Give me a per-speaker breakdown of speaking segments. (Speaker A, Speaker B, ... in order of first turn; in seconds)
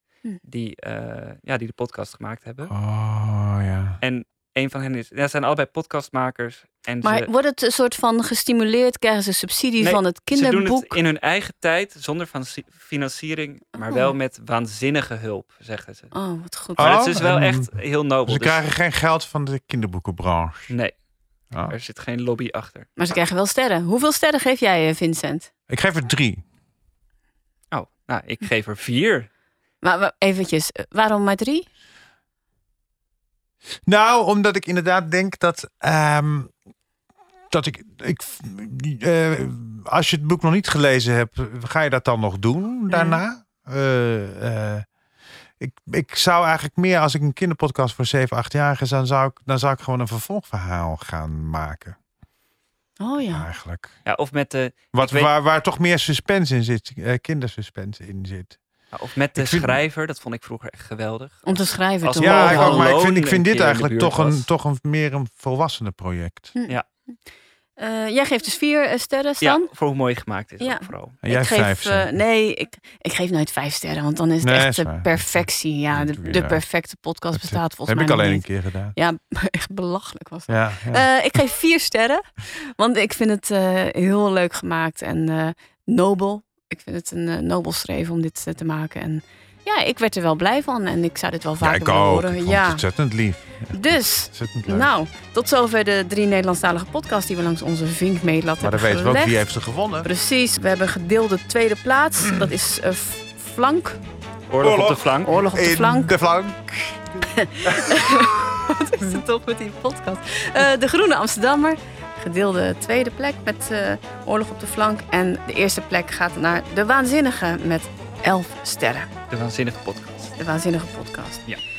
Speaker A: 0.4-2.7, 4.0-7.3, 9.8-16.1, 16.8-18.6, 21.7-22.9, 27.7-29.3, 54.0-55.3, 58.9-64.5, 69.4-71.2, 104.5-105.3, 119.3-120.2
Speaker B: 2.7-4.0, 16.8-20.7, 25.7-26.4, 33.8-36.5, 37.5-44.9, 45.6-52.0, 53.3-54.0, 54.9-58.6, 59.4-59.8, 62.2-66.5, 71.2-72.2, 74.4-76.6, 77.3-78.9, 80.5-81.1, 91.6-94.9, 98.6-100.1, 104.6-108.5
Speaker C: 7.0-11.0, 13.9-14.1, 16.1-16.8, 23.0-25.5, 29.8-31.6, 42.9-43.2, 53.0-53.5, 61.5-62.8, 66.5-66.8, 67.8-69.7, 70.6-82.2, 82.8-92.8, 93.7-99.4, 100.0-104.0, 105.2-106.1, 107.4-119.1, 120.4-121.4